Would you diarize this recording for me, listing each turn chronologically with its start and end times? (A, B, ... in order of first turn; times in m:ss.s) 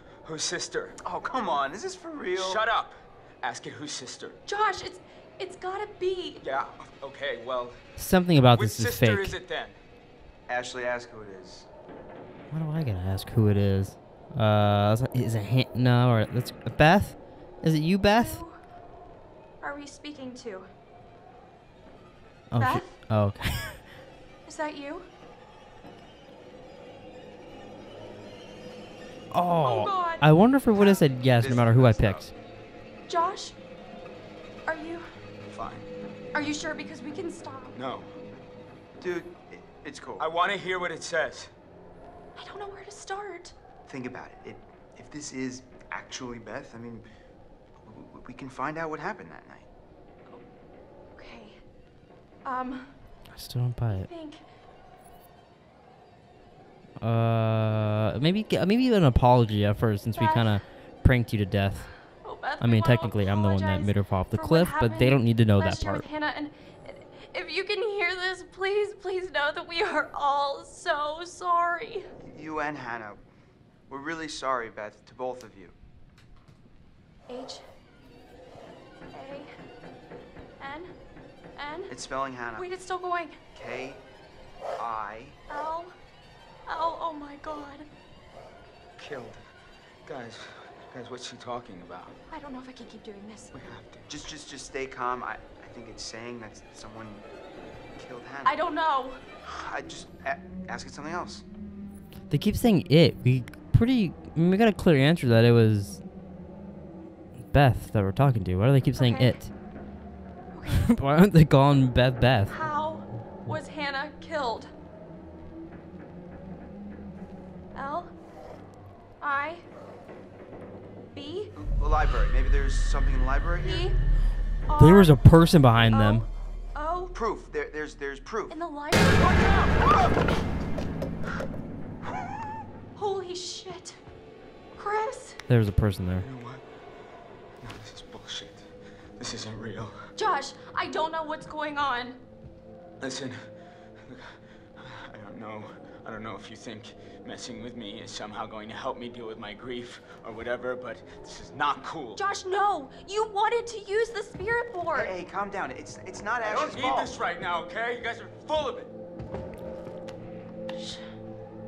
0:00.2-0:01.0 A
0:01.0-0:02.7 B
0:02.3-0:04.4 A
0:04.5-0:06.4 C
0:06.4-0:07.8 A
0:08.0-0:09.4 D
0:08.5-0:09.8 A
0:10.5-0:11.7 B
0:12.5-0:18.4 D
0:18.0-0:18.6 C
0:19.6-0:20.7 C
0:22.5-0:23.8 D
0:22.6-0:22.9 C
0:24.5-0:25.1 C
0:29.3-0:32.3 D
0:29.6-0:30.2 C
0:30.7-0:32.3 B
0:33.1-0:33.6 C
0:34.7-0:35.1 C
0:35.5-0:35.9 A
0:36.3-0:37.8 C
0:37.8-0:38.1 A
0:39.0-0:40.3 B
0:40.2-0:41.5 A
0:42.4-0:43.5 C
0:43.9-0:47.1 B
0:47.8-0:49.7 B
0:51.2-0:51.6 C
0:52.4-0:52.9 C
0:53.3-0:54.1 D
0:53.9-0:54.4 C
0:57.0-1:01.9 D
1:00.2-1:00.6 C
1:02.2-1:12.1 C
1:02.6-1:06.1 D
1:12.2-1:13.2 B
1:13.9-1:15.8 B
1:17.3-1:17.6 C
1:19.1-1:19.5 C
1:20.6-1:20.9 C
1:21.6-1:21.9 C
1:21.9-1:22.7 B
1:22.5-1:23.4 C
1:23.5-1:24.0 B
1:24.8-1:25.4 B
1:25.5-1:25.9 C
1:26.7-1:27.9 C
1:29.0-1:29.5 A
1:30.1-1:32.2 A
1:32.3-1:33.5 C
1:33.5-1:34.0 A
1:34.1-1:37.3 B
1:38.0-1:38.6 B
1:38.4-1:39.2 C
1:39.4-1:41.4 B
1:42.3-1:46.0 D
1:47.5-1:49.5 D
1:49.0-1:49.4 C
1:50.5-1:50.9 C
1:50.7-1:52.6 D
1:52.5-1:54.7 C
1:57.7-1:58.1 C
1:59.2-1:59.6 C
2:01.1-2:01.6 C
2:01.6-2:03.9 B
2:03.6-2:04.0 C
2:04.7-2:05.2 C
2:04.8-2:06.2 D
2:05.9-2:07.1 C
2:07.1-2:08.6 B
2:08.5-2:09.8 C
2:13.0-2:14.0 C
2:14.7-2:15.4 C
2:15.5-2:16.2 D
2:16.2-2:16.6 A
2:17.6-2:20.1 A
2:20.2-2:22.2 C
2:23.0-2:23.5 A
2:24.1-2:32.2 A
2:32.2-2:35.1 C
2:34.9-2:37.2 B
2:36.4-2:38.9 A
2:40.7-2:41.0 C